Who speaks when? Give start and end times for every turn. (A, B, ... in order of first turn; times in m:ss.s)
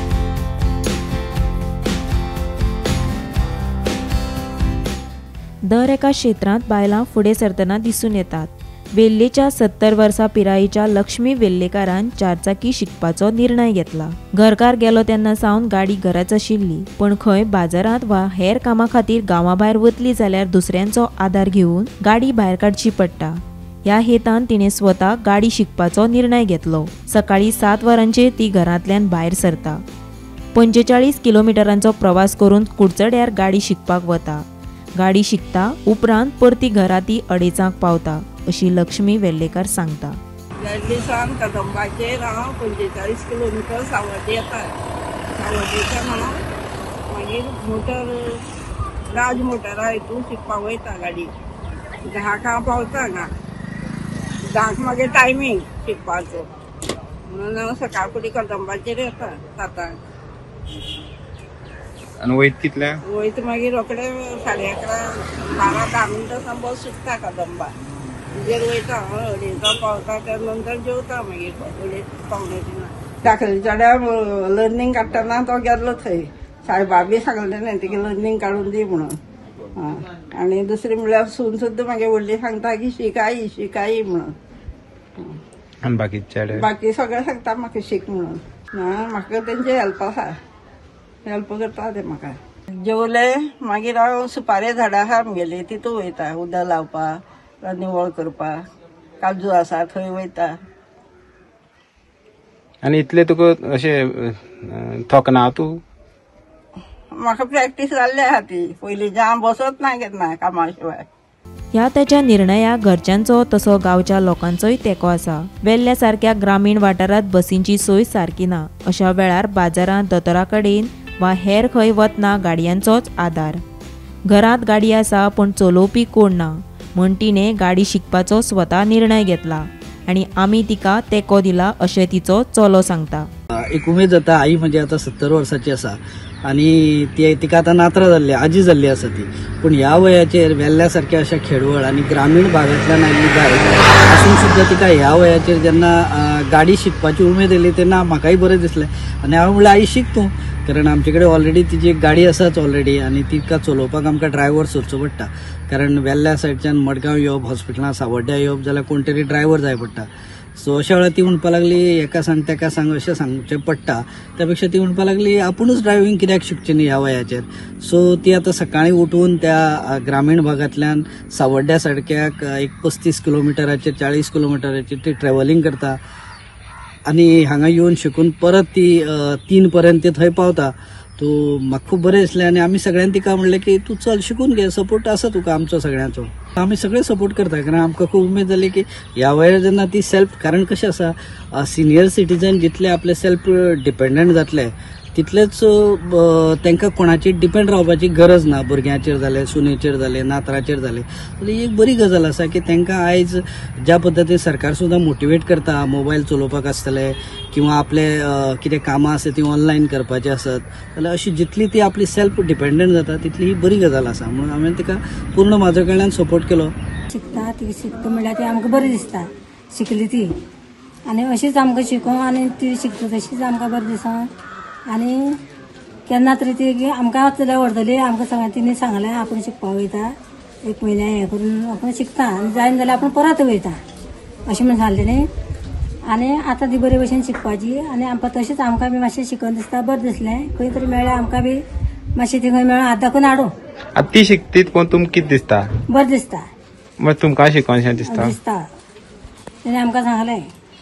0:05.6-0:29.8 A
0:30.5-0:34.4 A
0:35.0-0:40.2 A
0:40.6-0:44.7 B
0:45.4-0:46.4 B
0:47.1-0:48.4 B
0:49.1-0:51.3 B
0:52.0-0:53.3 B
0:54.4-0:56.5 B
0:57.3-1:00.0 B
1:02.2-1:03.0 C
1:03.1-1:07.8 B
1:08.3-1:19.2 B
1:19.8-1:24.4 B
1:25.8-1:26.7 C
1:26.5-1:30.4 B
1:31.3-1:38.6 B
1:39.2-1:40.6 B
1:42.8-1:45.8 C
1:47.1-1:51.1 B
1:51.7-2:03.6 A
2:04.3-2:13.3 A
2:13.6-2:56.0 D
2:57.1-3:36.7 D
3:37.1-3:40.3 E
3:41.1-3:44.2 E
3:44.9-3:45.4 E
3:46.1-3:50.1 E
3:50.7-3:53.8 E
3:54.5-3:55.3 E
3:56.1-4:01.6 E
4:02.2-4:03.5 E
4:04.0-4:05.7 C
4:05.9-4:06.4 E
4:07.0-4:08.3 C
4:08.0-4:08.6 E
4:09.6-4:10.4 E